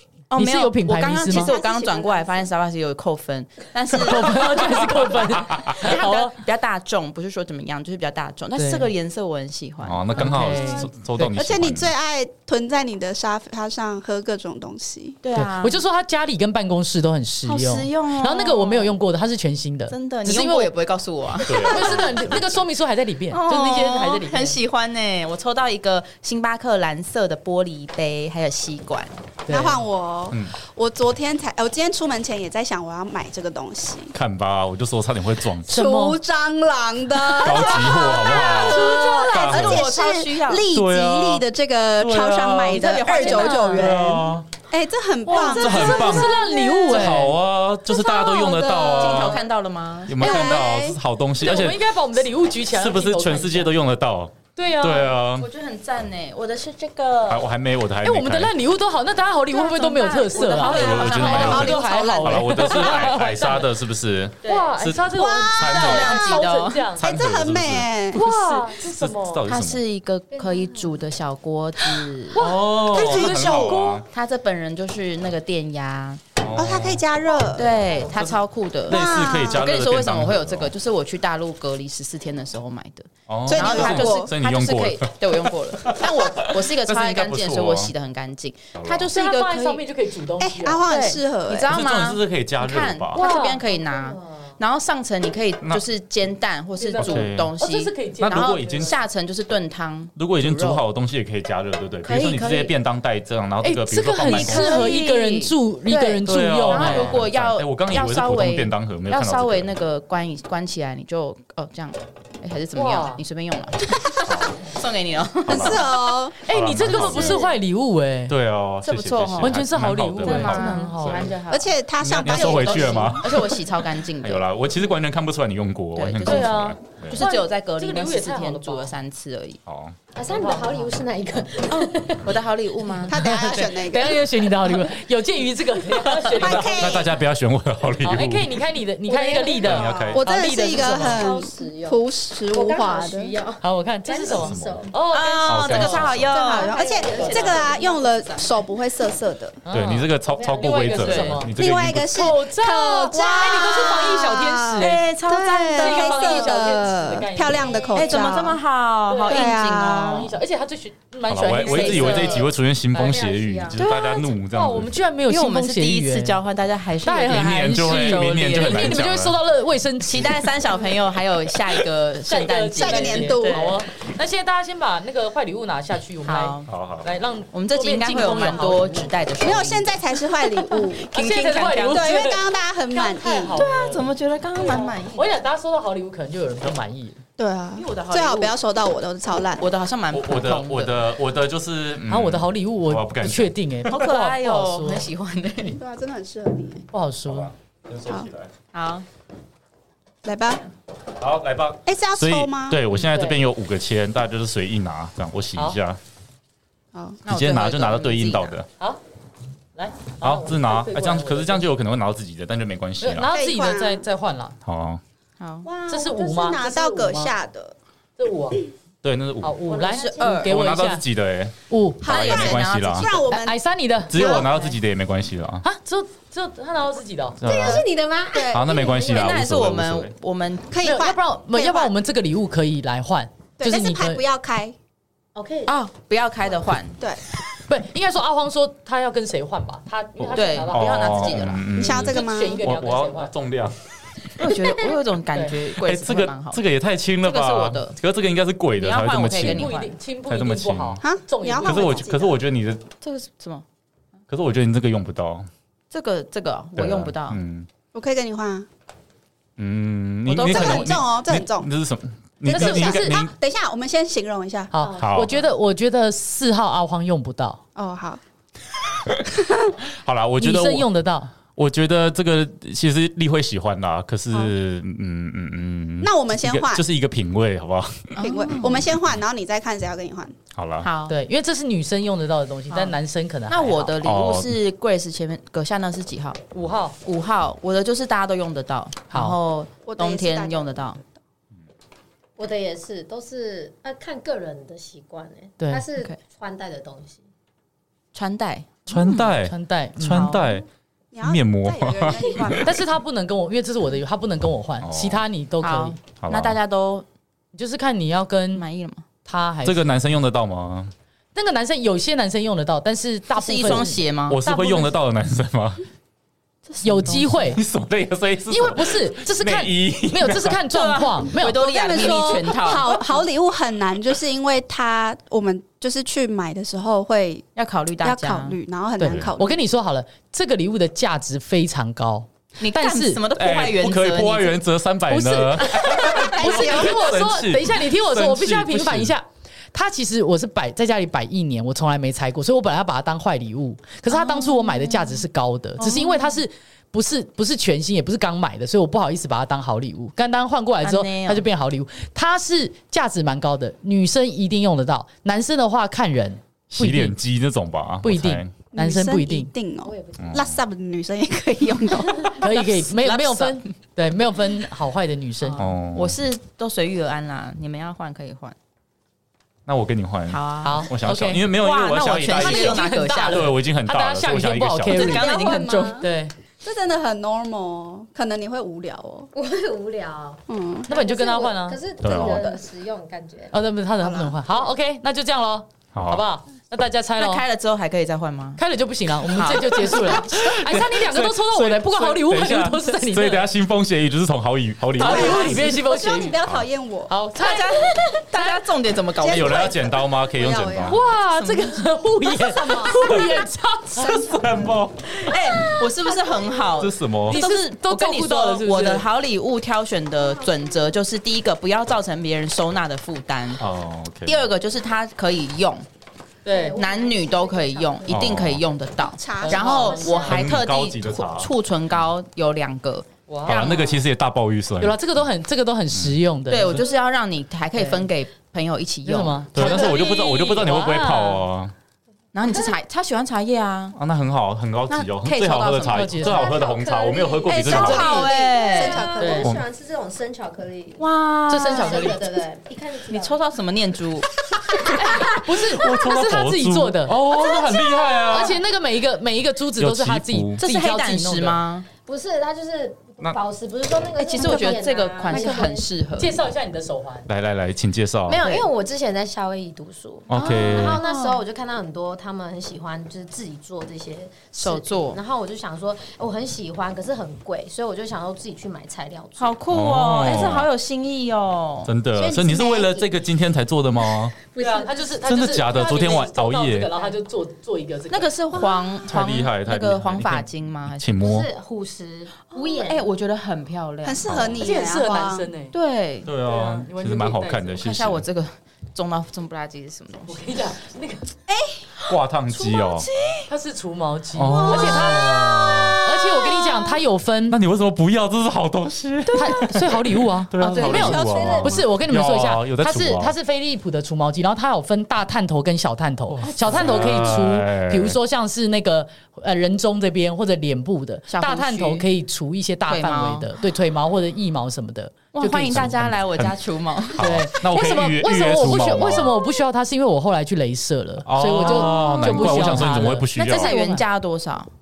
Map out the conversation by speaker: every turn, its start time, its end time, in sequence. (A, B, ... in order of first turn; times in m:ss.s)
0:00.3-0:10.5 A
0:00.3-0:01.5 B
0:01.3-0:02.3 C
0:03.9-0:06.4 B
0:04.8-0:05.9 D
0:08.6-0:08.9 B
0:09.8-0:11.9 D
0:10.2-0:11.4 B
0:11.3-0:15.2 E
0:15.2-0:15.8 A
0:15.4-0:20.7 B
0:17.5-0:18.9 A
0:19.9-0:22.4 A
0:21.4-0:22.2 D
0:21.6-0:24.6 B
0:23.3-0:29.2 A
0:29.4-0:29.8 B
0:29.5-0:34.1 E
0:34.1-0:35.7 D
0:35.7-0:36.2 B
0:35.7-0:47.1 E
0:37.3-0:39.9 D
0:37.5-0:40.6 A
0:40.7-0:41.4 D
0:42.0-0:44.4 D
0:42.7-0:44.1 A
0:43.2-0:43.9 B
0:45.2-0:47.4 B
0:45.3-0:49.4 D
0:47.9-0:49.4 E
0:48.8-0:50.6 A
0:50.1-0:51.8 D
0:50.2-0:51.0 E
0:51.4-0:53.8 B
0:52.7-0:55.5 D
0:54.6-0:55.2 B
0:55.4-0:57.5 A
0:57.3-0:58.5 D
0:58.0-1:03.7 B
0:59.5-1:02.1 A
1:00.5-1:06.4 D
1:01.1-1:02.8 E
1:04.4-1:04.7 A
1:04.4-1:07.0 B
1:05.4-1:06.9 A
1:07.0-1:09.8 D
1:07.0-1:08.3 E
1:08.1-1:09.4 B
1:09.5-1:12.4 A
1:10.3-1:10.9 C
1:12.3-1:14.0 B
1:12.4-1:14.0 D
1:12.9-1:13.9 E
1:14.1-1:16.2 A
1:16.4-1:17.0 D
1:16.5-1:17.7 E
1:17.5-1:29.8 A
1:18.9-1:19.6 E
1:18.9-1:20.7 D
1:23.3-1:25.1 D
1:23.5-1:24.3 E
1:25.8-1:27.9 D
1:28.8-1:29.1 D
1:29.1-1:31.0 B
1:30.4-1:31.7 E
1:30.9-1:40.8 A
1:31.7-1:33.2 D
1:33.2-1:34.6 B
1:36.8-1:38.9 B
1:37.0-1:37.5 D
1:38.2-1:39.0 D
1:40.2-1:45.0 D
1:42.0-1:42.7 A
1:43.6-1:47.2 B
1:44.2-1:55.8 A
1:46.2-1:49.7 D
1:52.7-1:53.2 B
1:54.2-1:54.6 D
1:55.5-1:55.8 D
1:55.5-1:56.4 E
1:56.4-1:58.4 B
1:56.5-1:57.4 D
1:56.8-1:57.4 A
1:58.3-2:01.3 D
1:58.8-2:04.4 A
1:59.4-2:01.3 B
2:01.5-2:03.4 E
2:02.0-2:03.4 D
2:04.2-2:07.2 D
2:06.0-2:09.6 A
2:06.2-2:08.9 B
2:09.6-2:10.0 D
2:10.1-2:12.3 C
2:10.3-2:10.9 B
2:11.7-2:13.2 A
2:13.1-2:14.2 E
2:13.1-2:17.0 B
2:15.9-2:16.7 A
2:16.3-2:17.2 E
2:16.4-2:18.5 D
2:18.0-2:21.2 B
2:19.1-2:23.3 E
2:19.2-2:20.1 C
2:19.6-2:20.2 D
2:20.9-2:22.0 C
2:22.5-2:24.9 C
2:23.6-2:26.2 B
2:24.4-2:24.9 D
2:25.1-2:27.7 A
2:25.4-2:26.5 D
2:26.3-2:29.6 E
2:26.4-2:28.6 C
2:29.6-2:35.0 B
2:29.7-2:32.3 D
2:30.3-2:30.9 C
2:30.9-2:31.4 A
2:31.6-2:38.6 E
2:34.8-2:36.6 A
2:35.8-2:38.2 B
2:37.8-2:38.1 C
2:37.9-2:40.3 A
2:39.1-2:43.2 B
2:39.3-2:40.3 E
2:41.3-2:44.9 D
2:41.6-2:42.5 A
2:42.9-2:43.8 C
2:43.8-2:44.3 A
2:44.5-2:46.4 B
2:45.3-2:49.1 A
2:47.0-2:50.5 B
2:47.3-2:49.4 D
2:50.0-2:53.8 A
2:52.2-2:59.1 B
2:52.7-2:53.8 E
2:56.2-2:56.7 A
2:56.7-2:57.1 D
2:57.5-3:00.0 A
2:59.4-3:01.1 E
3:00.8-3:02.2 A
3:01.1-3:07.2 B
3:01.8-3:03.6 E
3:03.5-3:05.3 A
3:07.4-3:09.7 E
3:07.7-3:08.6 A
3:09.6-3:11.1 A
3:10.1-3:13.9 D
3:12.0-3:15.1 B
3:13.9-3:15.8 A
3:15.7-3:16.8 E
3:16.9-3:17.5 B
3:17.3-3:18.5 D
3:18.7-3:19.0 A
3:20.2-3:20.6 E
3:21.2-3:26.0 D
3:21.8-3:22.8 E
3:23.0-3:23.4 B
3:26.9-3:27.2 E
3:27.2-3:28.6 A
3:27.3-3:28.7 D
3:29.7-3:31.7 B
3:30.2-3:33.3 D
3:33.0-3:34.6 B
3:33.2-3:34.0 E
3:34.6-3:35.0 D
3:35.4-3:35.7 A
3:35.6-3:37.7 E
3:35.8-3:37.3 B
3:38.2-3:38.7 B
3:39.0-3:39.6 D
3:39.4-3:41.0 B
3:39.8-3:40.4 C
3:39.8-3:40.6 A
3:40.2-3:43.1 D
3:41.7-3:42.1 B
3:42.0-3:43.2 A
3:42.1-3:43.6 E
3:43.3-3:44.5 B
3:44.1-3:45.6 D
3:44.1-3:44.5 E
3:45.6-3:47.4 B
3:47.4-3:47.9 D
3:47.4-3:49.0 C
3:47.4-3:48.9 E
3:48.5-3:50.1 D
3:48.9-3:50.7 A
3:50.7-3:51.9 E
3:50.8-3:54.2 B
3:53.6-3:54.8 E
3:55.3-3:55.7 C
3:55.7-3:57.0 A
3:57.7-4:03.3 B
4:00.2-4:03.8 D
4:00.3-4:01.8 A
4:01.7-4:02.6 E
4:04.4-4:06.6 A
4:05.8-4:09.7 D
4:07.2-4:08.0 A
4:08.8-4:09.9 A
4:09.3-4:12.0 B
4:10.3-4:11.0 D
4:11.0-4:12.4 E
4:11.6-4:12.9 D
4:13.0-4:13.6 A
4:14.3-4:15.5 D
4:15.9-4:17.4 A
4:16.8-4:17.7 D
4:17.9-4:18.7 E
4:19.6-4:23.3 D
4:20.3-4:21.0 A
4:20.4-4:21.7 E
4:22.4-4:24.7 E
4:22.5-4:23.2 B
4:24.7-4:27.6 B
4:24.8-4:25.2 C
4:25.0-4:25.3 D
4:27.8-4:28.2 E
4:29.2-4:29.7 E
4:29.9-4:30.9 D
4:30.4-4:31.3 B
4:31.5-4:38.8 D
4:36.0-4:36.8 E
4:38.2-4:38.8 A
4:38.2-4:40.4 E
4:40.5-4:40.9 D
4:40.8-4:41.2 A
4:41.1-4:44.0 B
4:42.7-4:42.9 A
4:43.5-4:46.4 A
4:44.0-4:44.5 D
4:46.5-4:47.0 B
4:47.0-4:51.0 A
4:49.8-4:51.1 E
4:52.4-4:57.2 C
4:55.6-4:55.8 B
4:58.1-4:59.4 A
4:58.9-5:00.6 D
4:59.4-5:00.4 B
5:00.1-5:00.6 A
5:01.1-5:02.8 E
5:01.2-5:02.6 D
5:02.0-5:02.7 A
5:02.6-5:06.0 B
5:04.8-5:05.2 D
5:05.6-5:07.0 A
5:06.2-5:06.6 D
5:07.5-5:08.6 B
5:08.5-5:09.0 A
5:09.2-5:09.8 B
5:09.6-5:10.9 D
5:11.3-5:14.9 B
5:13.3-5:14.4 A
5:14.3-5:15.8 D
5:16.8-5:17.6 B
5:16.9-5:20.6 D
5:18.5-5:21.6 B
5:20.7-5:23.1 A
5:21.6-5:27.5 E
5:27.6-5:28.6 A
5:28.0-5:29.6 E
5:29.0-5:33.2 B
5:29.0-5:29.3 D
5:32.6-5:34.6 A
5:33.4-5:39.1 D
5:35.1-5:57.2 B
5:35.8-5:36.8 A
5:36.4-5:36.9 E
5:44.1-5:45.1 A
5:45.8-5:46.4 A
5:50.8-5:51.4 A
5:56.7-5:58.5 D
5:58.0-5:59.5 B
5:58.7-6:02.4 E
5:59.8-6:00.3 C
6:00.2-6:00.6 D
6:02.4-6:03.7 A
6:02.4-6:05.6 B
6:05.4-6:08.6 A
6:05.6-6:06.2 D
6:09.6-6:15.4 D
6:10.3-6:10.9 A
6:10.6-6:11.5 B
6:11.5-6:13.5 A
6:12.3-6:16.3 B
6:14.9-6:15.8 A
6:15.0-6:16.1 E
6:16.6-6:19.3 E
6:19.3-6:23.6 C
6:20.5-6:20.9 E
6:20.9-6:21.8 B
6:22.0-6:22.5 D
6:23.5-6:27.4 B
6:24.0-6:24.3 E
6:25.9-6:26.2 D
6:27.2-6:28.6 A
6:28.6-6:33.5 B
6:29.2-6:30.3 A
6:30.0-6:35.7 D
6:35.0-6:35.6 A
6:35.0-6:37.1 E
6:35.0-6:36.4 B
6:37.1-6:38.6 B
6:37.4-6:39.8 A
6:39.2-6:41.0 E
6:39.2-6:41.0 D
6:40.9-6:44.2 B
6:41.3-6:41.8 A
6:42.6-6:43.2 E
6:44.0-6:44.9 E
6:44.0-6:45.0 D
6:45.2-6:53.6 A
6:46.8-6:47.4 D
6:47.3-6:49.1 B
6:53.6-6:54.4 D
6:54.2-6:55.8 A
6:56.4-6:56.8 B
6:56.4-6:58.2 C
6:56.7-7:04.0 A
6:58.1-6:58.6 D
6:59.2-7:00.1 E
6:59.4-7:00.4 B
6:59.5-7:00.5 C
7:00.2-7:01.5 D
7:03.3-7:04.0 B
7:03.4-7:05.0 D
7:04.8-7:06.8 B
7:06.5-7:10.0 A
7:07.7-7:08.1 B
7:09.0-7:11.4 B
7:09.5-7:11.7 D
7:09.6-7:10.1 E
7:12.3-7:13.9 A
7:13.9-7:18.3 D
7:14.9-7:16.6 A
7:15.9-7:16.6 B
7:16.3-7:23.4 C
7:17.4-7:19.1 A
7:17.5-7:19.5 E
7:19.2-7:19.5 B
7:21.0-7:22.2 A
7:21.5-7:22.2 B
7:23.1-7:24.3 A
7:24.8-7:27.2 B
7:25.2-7:28.6 D
7:27.4-7:28.4 C
7:28.3-7:31.6 B
7:29.8-7:30.6 D
7:30.6-7:31.9 A
7:32.0-7:35.9 C
7:34.2-7:36.4 A
7:34.4-7:34.7 B
7:35.3-7:37.3 B
7:37.3-7:38.4 D
7:38.2-7:49.6 C
7:38.4-7:38.6 A
7:40.3-7:41.0 D
7:40.3-7:41.4 A
7:44.6-7:45.2 A
7:49.4-7:51.9 A
7:49.7-7:50.7 D
7:51.9-7:54.3 D
7:52.2-7:53.0 E
7:52.2-7:53.0 C
7:54.3-7:55.2 C
7:54.6-7:58.3 B
7:55.2-7:56.9 D
7:58.1-8:01.1 A
7:59.0-8:00.4 D
8:01.0-8:01.5 D
8:01.2-8:03.0 C
8:02.5-8:04.5 A
8:04.0-8:05.5 E
8:04.6-8:05.7 B
8:05.7-8:06.7 A
8:06.2-8:08.2 D
8:06.4-8:07.8 B
8:07.8-8:10.6 A
8:10.3-8:11.3 B
8:11.5-8:11.8 E
8:12.1-8:13.1 D
8:12.7-8:13.4 A
8:13.4-8:17.6 B
8:14.3-8:16.0 D
8:14.5-8:15.0 A
8:17.5-8:23.3 D
8:19.3-8:36.0 B
8:20.6-8:21.9 E
8:26.3-8:28.2 D
8:26.5-8:27.2 A
8:31.3-8:32.1 A
8:32.9-8:33.5 A
8:35.3-8:37.5 A
8:35.7-8:36.6 D
8:37.2-8:39.3 D
8:37.2-8:44.0 B
8:41.2-8:43.8 D
8:41.6-8:44.7 A